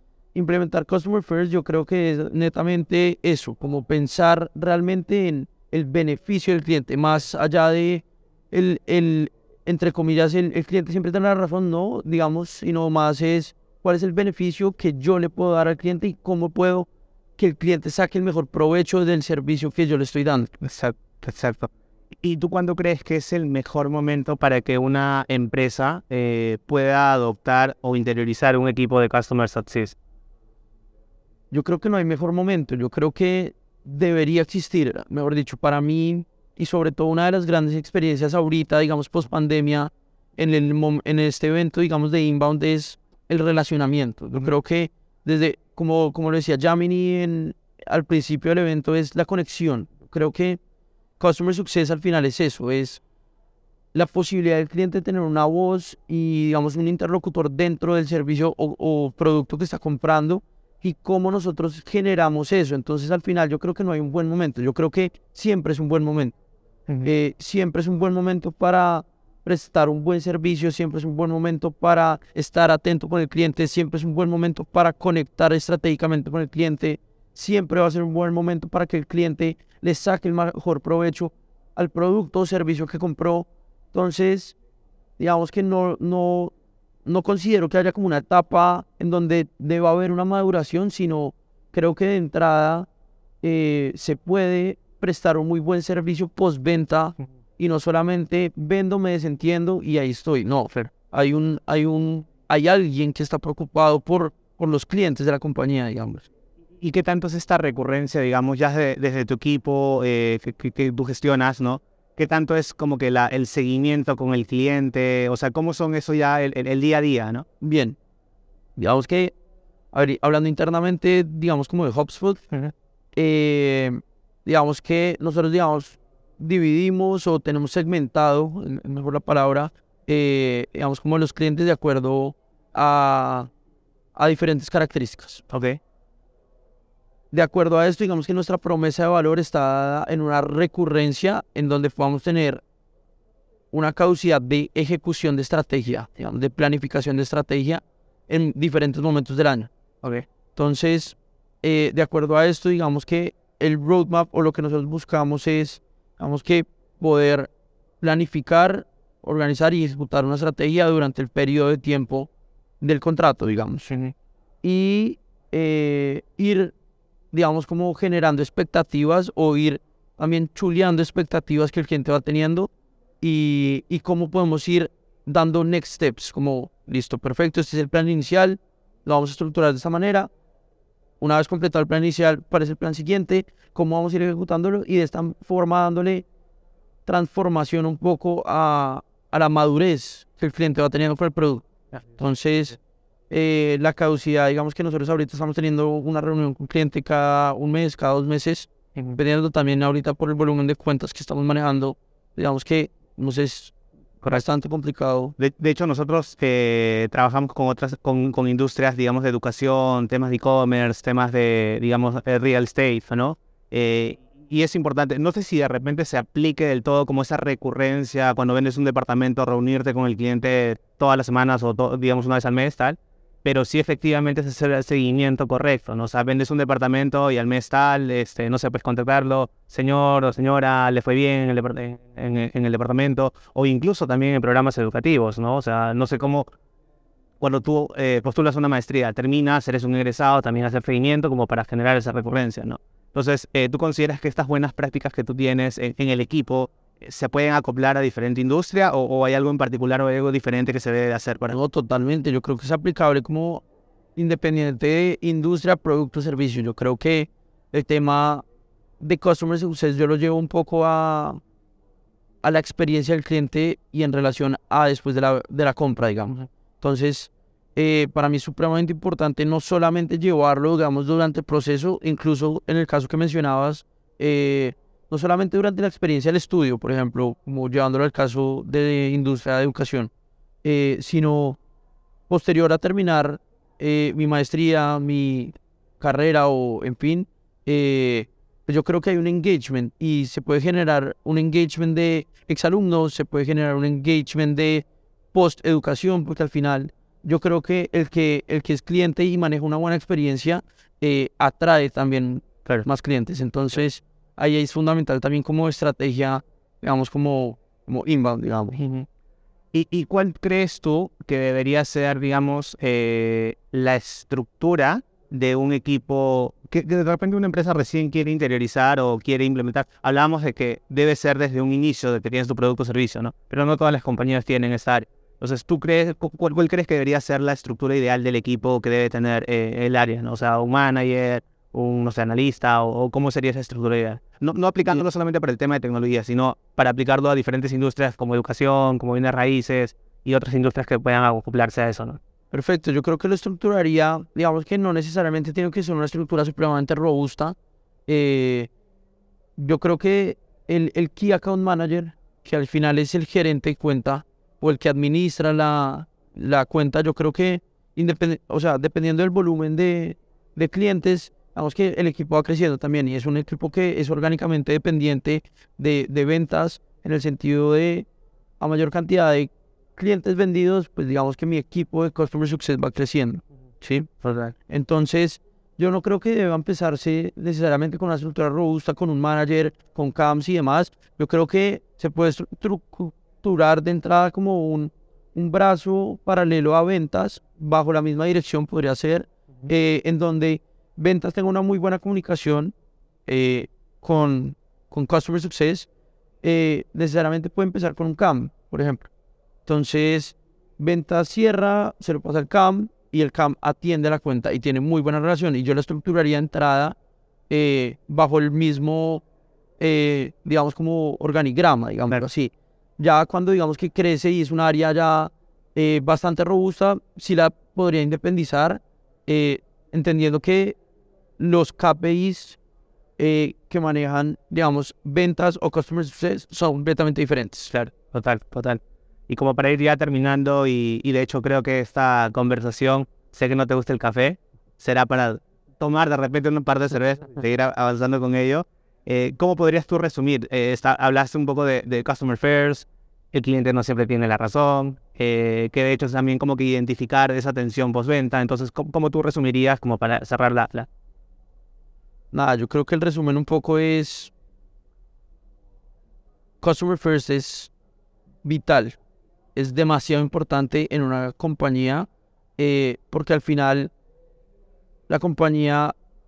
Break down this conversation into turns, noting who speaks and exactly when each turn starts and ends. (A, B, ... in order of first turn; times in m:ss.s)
0:00.3-0:20.5 A
0:20.6-0:21.7 B
0:22.2-0:30.0 B
0:31.5-0:50.6 A
0:51.2-0:53.0 A
0:53.9-1:06.3 A
1:07.0-1:24.6 A
1:25.2-1:26.5 A
1:27.0-1:32.9 A
1:33.4-1:46.3 A
1:46.8-1:57.4 B
1:57.6-1:58.0 A
1:58.8-1:59.3 A
1:59.9-2:02.4 A
2:03.1-2:13.5 A
2:14.2-2:15.4 A
2:15.5-2:15.8 B
2:17.3-2:22.6 A
2:23.7-2:29.7 A
2:30.6-2:42.3 A
2:42.8-2:43.9 A
2:43.9-2:44.1 B
2:44.6-2:46.7 A
2:47.3-2:52.7 A
2:53.2-3:00.3 A
3:01.2-3:06.3 A
3:07.0-3:12.8 A
3:13.3-3:25.3 A
3:25.4-3:56.5 B
3:57.4-4:11.6 B
4:11.5-4:13.6 A
4:14.2-4:18.4 A
4:19.0-4:21.4 A
4:22.4-4:40.1 A
4:40.6-4:41.6 A
4:42.3-5:08.8 A
5:08.7-5:09.1 B
5:09.7-5:42.2 B
5:42.5-5:47.6 A
5:48.1-5:48.7 A
5:49.6-6:08.1 A
6:08.6-6:14.1 A
6:14.2-6:14.6 B
6:14.7-6:32.7 A
6:33.3-6:35.9 A
6:36.4-6:39.1 A
6:39.7-6:47.0 A
6:47.5-6:49.2 A
6:49.8-7:00.8 A
7:01.4-7:02.6 A
7:03.2-7:07.7 A
7:07.7-7:30.9 B
7:32.3-7:34.3 A
7:36.6-7:37.7 A
7:38.4-7:39.0 A
7:39.6-7:43.9 A
7:45.1-7:46.0 A